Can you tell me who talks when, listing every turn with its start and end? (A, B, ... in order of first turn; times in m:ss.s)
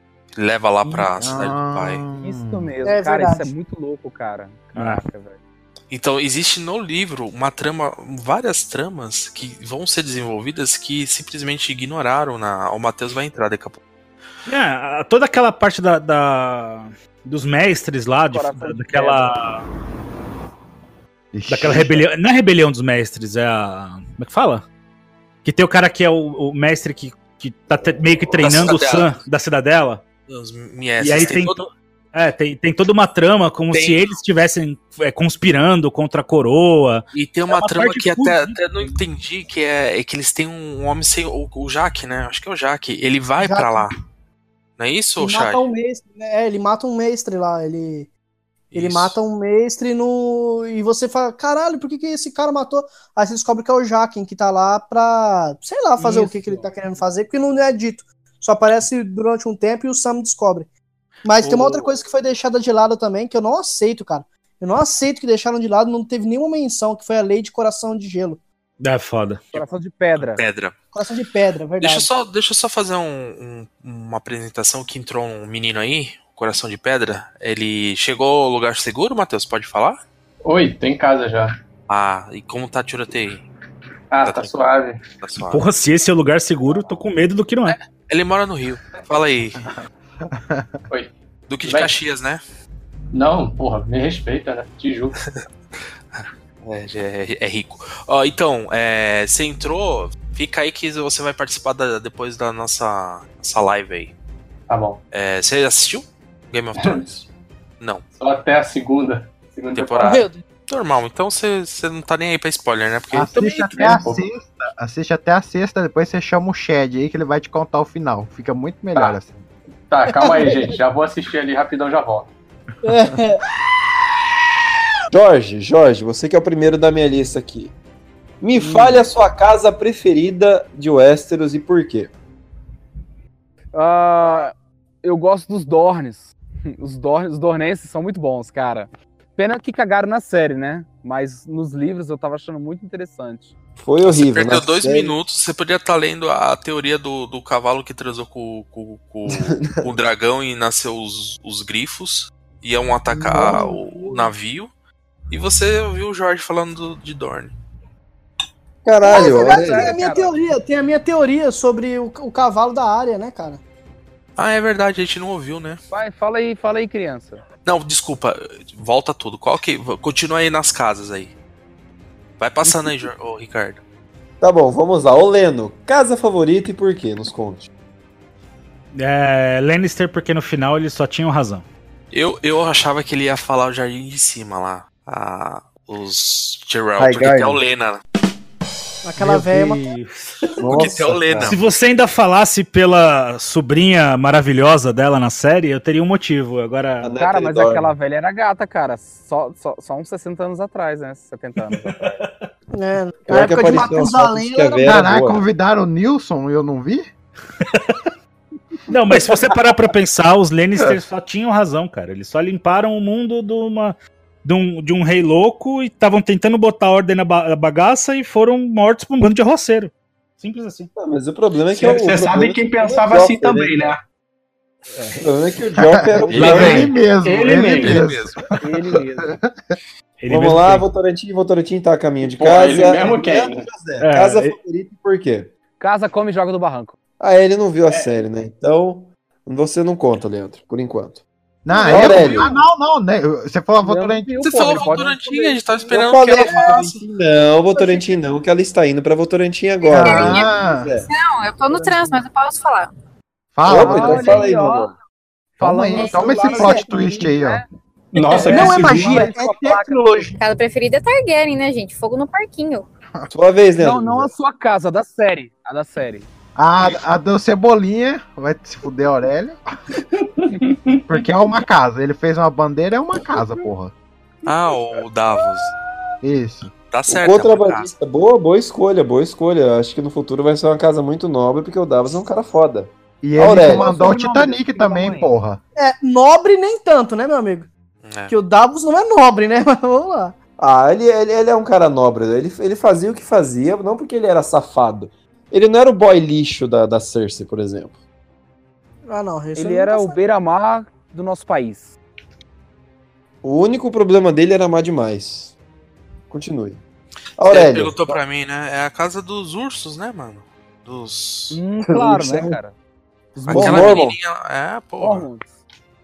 0:00.4-0:02.0 A
0:01.2-0:02.7 B
0:02.2-0:05.4 C
0:02.8-0:03.5 D
0:04.8-0:05.0 E
0:05.9-0:13.8 A
0:14.5-0:19.6 E
0:18.3-0:19.4 C
0:21.3-0:22.1 B
0:21.5-0:24.6 E
0:25.4-0:30.0 E
0:28.4-0:29.1 A
0:30.3-0:31.6 A
0:31.0-0:39.0 E
0:33.7-0:34.2 A
0:37.1-0:43.9 A
0:43.4-0:43.9 D
0:44.8-0:45.7 A
0:45.2-0:48.1 D
0:48.7-0:49.2 A
0:48.7-1:00.7 D
0:56.0-0:56.8 C
1:01.2-1:08.4 D
1:01.4-1:01.9 C
1:08.8-1:09.6 E
1:09.5-1:10.4 C
1:10.3-1:10.8 A
1:10.9-1:12.1 D
1:11.8-1:20.0 A
1:20.4-1:21.6 F
1:21.9-1:23.5 A
1:24.1-1:25.0 F
1:24.2-1:24.6 A
1:25.2-1:25.6 A
1:25.5-1:27.8 E
1:27.7-1:29.6 A
1:29.8-1:30.8 B
1:30.9-1:31.9 F
1:31.5-1:32.4 A
1:33.1-1:35.2 F
1:36.1-1:44.1 A
1:44.7-1:45.0 F
1:45.1-1:47.3 A
1:48.2-1:50.3 F
1:49.7-1:54.0 A
1:50.0-1:50.4 D
1:53.1-1:59.4 B
1:53.3-1:54.2 F
1:59.0-1:59.2 F
1:59.9-2:02.3 F
2:00.1-2:00.7 D
2:02.8-2:03.4 D
2:05.1-2:07.7 G
2:08.4-2:12.1 G
2:08.5-2:09.0 C
2:13.7-2:23.5 C
2:23.8-2:25.2 G
2:24.0-2:34.7 A
2:29.3-2:29.8 G
2:33.2-2:34.3 D
2:35.3-2:37.6 A
2:38.8-2:40.0 G
2:39.0-2:43.6 D
2:39.1-2:40.3 C
2:44.4-2:45.8 A
2:45.9-2:47.4 C
2:47.6-2:51.3 A
2:52.4-2:53.8 A
2:52.6-2:53.0 C
2:54.4-2:57.7 G
2:58.9-3:01.6 E
3:02.1-3:08.0 A
3:07.0-3:07.6 G
3:09.0-3:09.8 D
3:09.2-3:10.8 E
3:10.5-3:11.5 G
3:10.6-3:11.7 A
3:11.4-3:17.1 E
3:17.0-3:17.9 G
3:17.2-3:22.2 C
3:22.7-3:25.0 D
3:23.3-3:25.4 G
3:24.8-3:27.1 B
3:27.7-3:28.0 E
3:28.9-3:40.9 E
3:41.0-3:43.8 G
3:41.8-3:44.0 F
3:44.9-3:45.2 E
3:45.2-3:47.0 G
3:45.8-3:48.4 B
3:46.3-3:46.9 E
3:47.2-3:48.0 F
3:47.7-3:48.4 A
3:48.6-3:49.4 C
3:49.3-3:49.7 B
3:50.2-3:50.9 E
3:50.3-3:55.5 G
3:52.2-3:53.7 F
3:54.0-3:54.6 E
3:55.8-3:57.0 C
3:57.2-4:01.2 G
4:01.6-4:04.8 B
4:01.8-4:02.5 G
4:01.9-4:02.2 A
4:01.9-4:02.4 C
4:03.8-4:05.6 C
4:04.4-4:07.0 A
4:05.9-4:11.1 G
4:06.4-4:06.8 D
4:07.7-4:08.2 D
4:09.8-4:12.9 H
4:09.9-4:10.9 B
4:13.6-4:14.5 B
4:13.6-4:15.0 G
4:13.7-4:14.9 C
4:15.6-4:17.6 C
4:15.6-4:17.6 B
4:16.0-4:16.6 H
4:16.4-4:16.8 D
4:18.1-4:19.3 F
4:18.2-4:20.3 C
4:18.4-4:20.4 D
4:20.4-4:22.9 H
4:23.3-4:24.3 G
4:23.8-4:26.3 C
4:26.6-4:29.6 B
4:30.2-4:31.2 F
4:31.1-4:33.9 B
4:34.4-4:35.7 A
4:36.2-4:36.7 B
4:36.9-4:37.9 A
4:37.1-4:43.9 G
4:43.2-4:45.6 B
4:43.5-4:45.3 C
4:45.8-4:47.7 D
4:48.0-4:48.3 A
4:48.3-4:50.4 D
4:50.6-4:58.0 G
4:59.1-5:00.2 D
4:59.6-5:02.0 C
5:03.4-5:05.6 G
5:06.3-5:06.8 G
5:07.4-5:08.2 G
5:07.5-5:11.6 A
5:11.5-5:12.8 C
5:11.8-5:12.6 G
5:13.4-5:14.0 C
5:13.5-5:14.2 G
5:13.5-5:15.3 A
5:15.0-5:15.6 C